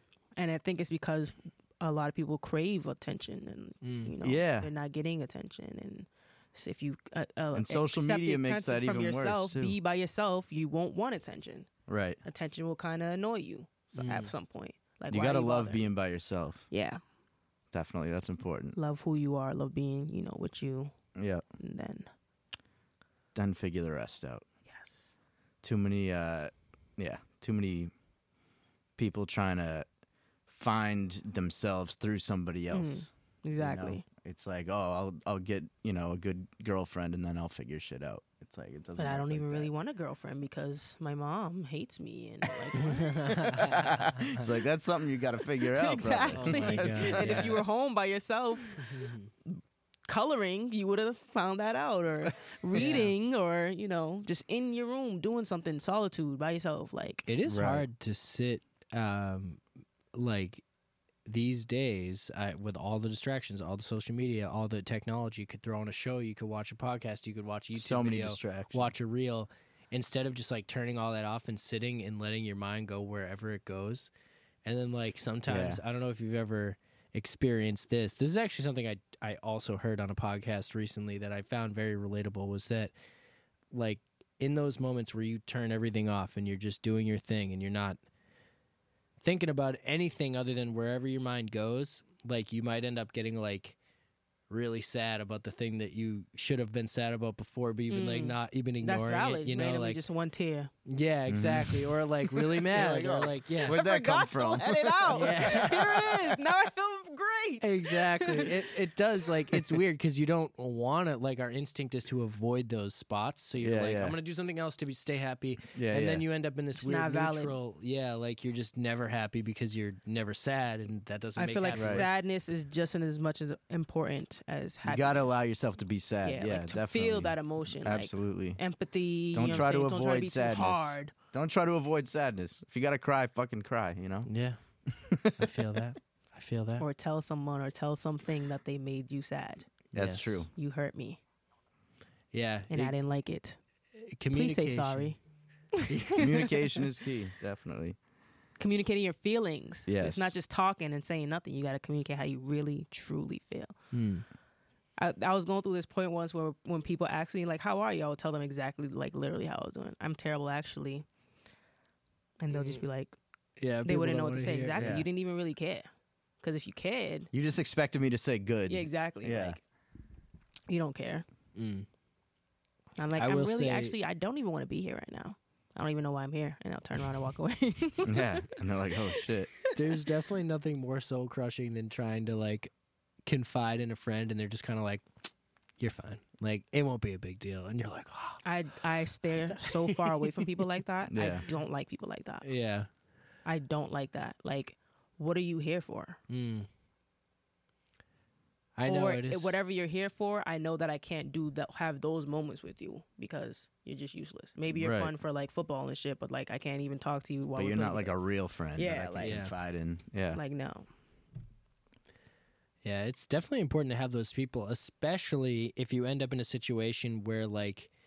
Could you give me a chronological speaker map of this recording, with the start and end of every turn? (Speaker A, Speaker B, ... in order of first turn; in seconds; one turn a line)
Speaker A: 0.3-11.7
Speaker B: 3.8-4.1
Speaker C: 4.2-4.7
Speaker C: 7.5-9.7
Speaker C: 11.9-12.2
Speaker A: 12.2-15.9
Speaker B: 14.0-14.3
Speaker C: 15.1-16.6
Speaker A: 16.7-17.0
Speaker C: 17.7-18.7
Speaker A: 18.7-20.9
Speaker C: 21.1-21.4
Speaker A: 21.6-22.1
Speaker C: 23.3-24.4
Speaker A: 24.7-25.1
Speaker C: 25.6-27.9
Speaker C: 29.0-29.9
Speaker C: 30.5-39.7
Speaker A: 32.7-34.0
Speaker A: 39.0-43.5
Speaker B: 42.8-44.4
Speaker C: 43.5-47.6
Speaker A: 45.7-57.3
Speaker B: 46.3-47.6
Speaker B: 48.8-49.3
Speaker B: 52.7-53.1
Speaker B: 57.3-59.6
Speaker C: 57.5-57.8
Speaker B: 60.1-60.6
Speaker B: 61.2-74.1
Speaker C: 67.8-68.9
Speaker B: 74.6-82.9
Speaker C: 75.5-75.8
Speaker B: 83.7-88.0
Speaker B: 89.2-93.8
Speaker B: 94.5-100.0
Speaker A: 97.9-100.7
Speaker B: 100.8-103.8
Speaker C: 101.3-101.9
Speaker C: 102.5-106.3
Speaker A: 102.7-108.6
Speaker B: 105.1-105.8
Speaker B: 107.6-122.1
Speaker C: 113.6-114.2
Speaker C: 115.7-116.2
Speaker A: 116.8-117.6
Speaker A: 121.4-125.4
Speaker C: 121.7-122.0
Speaker C: 124.8-128.6
Speaker A: 126.2-131.1
Speaker C: 129.3-134.3
Speaker B: 134.2-134.6
Speaker C: 134.9-135.5
Speaker B: 135.3-136.8
Speaker A: 136.8-139.7
Speaker C: 139.9-140.5
Speaker B: 139.9-140.4
Speaker A: 140.5-141.2
Speaker B: 142.3-142.9
Speaker A: 142.7-143.6
Speaker B: 143.9-145.1
Speaker A: 144.3-145.2
Speaker A: 145.7-146.8
Speaker B: 145.9-146.3
Speaker C: 146.2-148.0
Speaker A: 148.6-153.8
Speaker C: 149.9-150.3
Speaker B: 153.9-154.2
Speaker A: 155.0-161.0
Speaker A: 162.4-163.1
Speaker B: 162.5-162.8
Speaker B: 163.6-164.9
Speaker A: 163.8-165.9
Speaker C: 164.8-165.1
Speaker A: 166.4-167.3
Speaker C: 167.3-169.6
Speaker A: 168.7-169.6
Speaker A: 170.7-171.2
Speaker B: 171.6-171.9
Speaker A: 173.0-178.5
Speaker B: 173.2-173.9
Speaker C: 178.0-179.5
Speaker A: 179.1-180.0
Speaker B: 179.7-182.7
Speaker B: 183.2-185.0
Speaker B: 185.8-188.4
Speaker A: 188.4-192.5
Speaker B: 189.7-190.3
Speaker C: 191.1-191.4
Speaker B: 192.4-192.9
Speaker A: 193.4-196.2
Speaker B: 196.3-196.7
Speaker B: 198.8-199.5
Speaker A: 198.8-208.2
Speaker C: 204.7-205.1
Speaker C: 207.6-210.4
Speaker A: 208.7-209.4
Speaker B: 209.2-209.5
Speaker A: 210.3-210.9
Speaker B: 212.8-217.9